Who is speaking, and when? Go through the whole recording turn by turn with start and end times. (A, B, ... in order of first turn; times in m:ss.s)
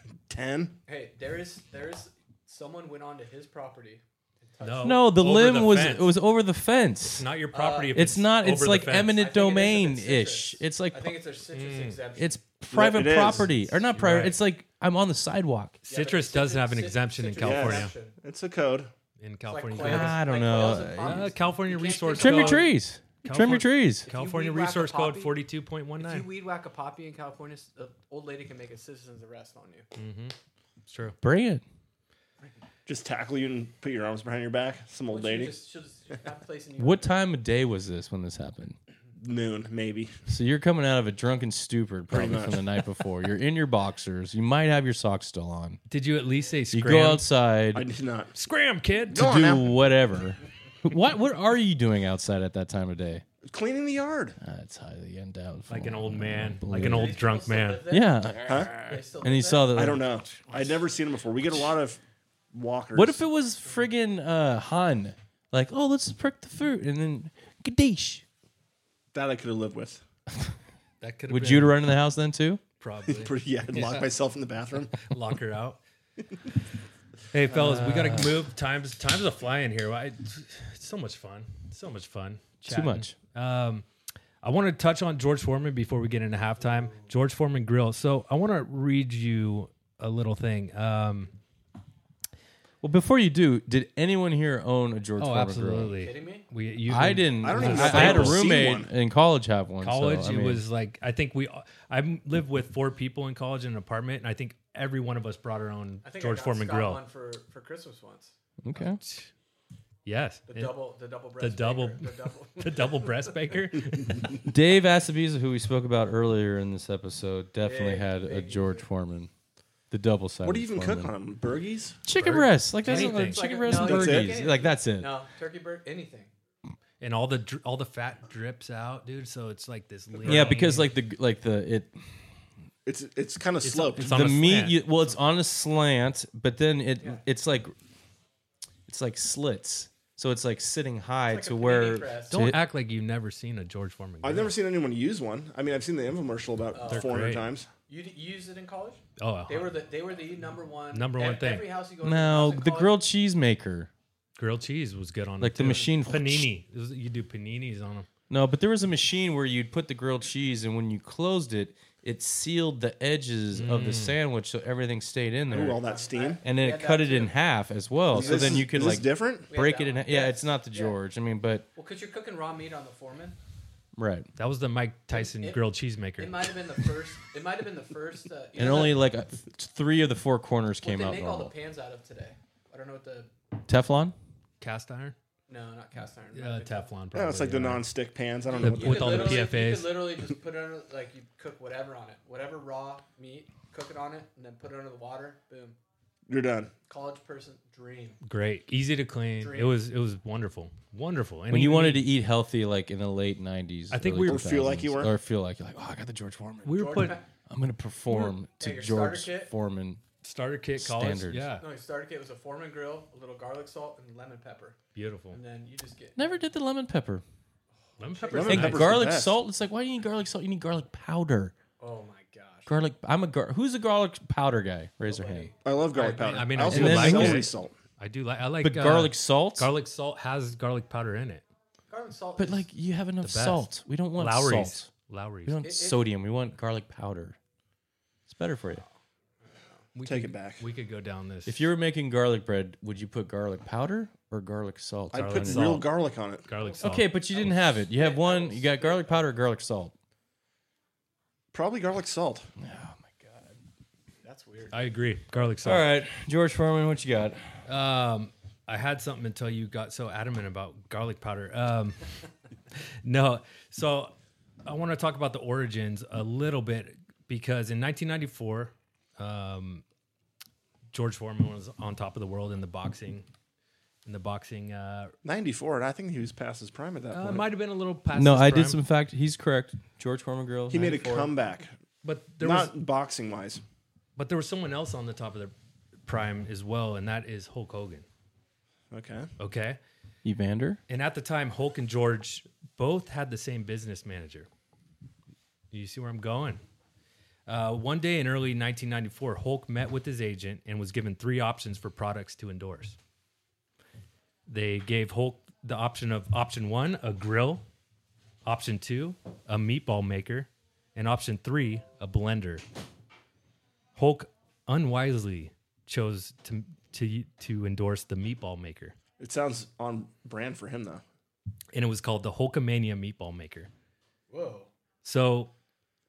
0:00.3-0:00.8 A
0:00.9-0:05.0 B
0:04.6-0:06.1 C
0:04.8-0:07.2 D
0:07.1-0:09.2 C
0:07.5-0:08.0 B
0:07.9-0:11.2 D
0:09.1-0:12.4 B
0:11.5-0:12.0 C
0:12.2-0:15.8 D
0:12.7-0:13.6 A
0:13.9-0:14.4 C
0:15.8-0:17.9 C
0:15.8-0:18.1 B
0:17.4-0:18.9 A
0:19.2-0:22.7 C
0:19.4-0:22.7 B
0:19.8-0:21.3 D
0:22.2-0:24.1 D
0:23.2-0:26.2 C
0:24.0-0:25.4 B
0:26.0-0:29.9 B
0:30.0-0:30.3 C
0:30.9-0:31.2 C
0:31.2-0:31.6 D
0:32.8-0:35.6 A
0:35.1-0:37.2 B
0:36.8-0:38.8 D
0:39.2-0:40.1 A
0:40.3-0:45.8 D
0:42.1-0:42.6 A
0:45.9-0:47.2 C
0:46.7-0:47.8 D
0:47.7-0:48.3 A
0:48.3-0:49.2 C
0:49.1-0:49.7 A
0:49.1-0:53.2 D
0:53.4-0:54.4 A
0:54.4-0:57.2 D
0:55.7-0:57.8 C
0:56.7-0:59.9 B
0:57.9-1:00.0 D
0:58.4-0:58.8 A
0:59.7-1:02.0 A
1:02.5-1:03.2 A
1:02.9-1:08.2 D
1:09.1-1:10.0 A
1:11.0-1:11.8 C
1:11.3-1:12.6 D
1:12.8-1:14.0 C
1:13.1-1:15.0 A
1:15.0-1:15.8 C
1:17.3-1:23.9 C
1:17.5-1:18.3 D
1:22.7-1:23.1 D
1:24.4-1:31.3 C
1:26.6-1:27.1 B
1:32.8-1:36.0 D
1:35.2-1:38.5 C
1:36.0-1:36.5 B
1:36.9-1:40.6 D
1:37.4-1:38.9 A
1:39.8-1:47.0 C
1:46.0-1:48.3 B
1:48.6-1:49.0 D
1:49.0-1:49.3 C
1:50.0-1:50.7 C
1:50.5-1:53.3 B
1:51.4-1:54.4 C
1:54.4-1:59.3 D
1:57.6-1:58.8 B
1:59.9-2:01.1 D
2:00.4-2:02.1 A
2:02.0-2:05.1 D
2:02.2-2:03.5 C
2:02.8-2:06.3 B
2:03.7-2:04.4 A
2:07.0-2:10.9 C
2:10.2-2:12.0 D
2:12.8-2:14.2 A
2:13.6-2:14.8 C
2:14.0-2:17.7 D
2:18.9-2:22.6 D
2:21.3-2:22.4 B
2:22.3-2:24.5 C
2:24.2-2:27.7 A
2:26.7-2:27.2 B
2:26.9-2:27.4 C
2:27.9-2:33.0 B
2:29.2-2:29.7 C
2:30.9-2:31.7 C
2:32.0-2:33.9 D
2:34.4-2:38.1 C
2:35.4-2:36.5 D
2:38.3-2:45.8 D
2:43.5-2:44.2 C
2:45.5-2:46.4 A
2:45.5-2:47.3 B
2:46.4-2:51.7 D
2:48.1-2:49.5 A
2:48.1-2:48.6 B
2:49.5-2:51.0 B
2:51.7-2:53.4 B
2:54.0-2:54.3 D
2:54.4-2:56.5 C
2:55.1-2:55.6 B
2:56.2-2:59.0 B
2:58.6-3:01.5 D
3:00.8-3:03.3 B
3:03.7-3:04.1 D
3:04.6-3:05.2 C
3:05.5-3:06.9 B
3:06.3-3:07.8 C
3:07.1-3:09.4 A
3:08.5-3:15.8 B
3:08.6-3:10.0 C
3:16.3-3:16.7 A
3:16.9-3:18.2 B
3:18.2-3:22.1 C
3:19.4-3:19.8 B
3:21.5-3:26.8 D
3:23.9-3:24.5 C
3:24.2-3:25.1 A
3:26.6-3:27.2 C
3:26.7-3:27.3 B
3:27.5-3:30.0 D
3:28.2-3:29.5 B
3:30.2-3:31.6 C
3:30.8-3:31.5 D
3:31.6-3:34.8 B
3:34.9-3:35.4 C
3:35.3-3:36.4 B
3:36.2-3:37.2 D
3:38.0-3:38.8 B
3:38.0-3:38.9 C
3:38.3-3:39.4 A
3:38.5-3:41.5 D
3:41.8-3:42.7 B
3:42.6-3:45.5 D
3:45.0-3:46.2 B
3:45.6-3:47.7 A
3:46.0-3:51.4 C
3:46.6-3:47.5 D
3:48.6-3:49.7 D
3:51.9-3:52.7 B
3:52.4-3:54.9 D
3:53.2-3:55.6 C
3:55.4-3:57.4 D
3:55.6-3:56.0 B
3:58.3-3:58.8 D
3:59.4-3:59.8 B
3:59.9-4:01.7 C
4:00.0-4:00.6 A
4:01.4-4:05.8 D
4:05.1-4:06.4 A
4:05.1-4:05.8 C
4:06.4-4:07.1 C
4:06.6-4:09.2 B
4:06.8-4:09.9 D
4:11.5-4:12.5 A
4:12.6-4:13.6 D
4:14.2-4:15.4 B
4:14.7-4:15.8 C
4:15.6-4:17.4 D
4:17.6-4:22.1 C
4:23.0-4:29.8 C
4:30.9-4:33.3 C
4:34.0-4:35.1 C
4:35.2-4:37.4 A
4:37.1-4:38.8 C
4:38.1-4:41.3 D
4:40.7-4:41.7 A
4:42.0-4:42.7 C
4:42.4-4:43.6 A
4:44.2-4:45.5 C
4:46.0-4:48.0 C
4:48.9-4:49.3 A
4:49.4-4:49.8 C
4:50.2-4:50.8 D
4:50.9-4:54.5 C
4:55.7-4:56.6 C
4:57.5-5:03.0 C
5:04.5-5:07.6 C
5:08.4-5:12.6 C
5:14.0-5:19.0 C
5:19.2-5:21.0 A
5:21.7-5:23.7 C
5:24.3-5:24.7 B
5:25.0-5:25.5 C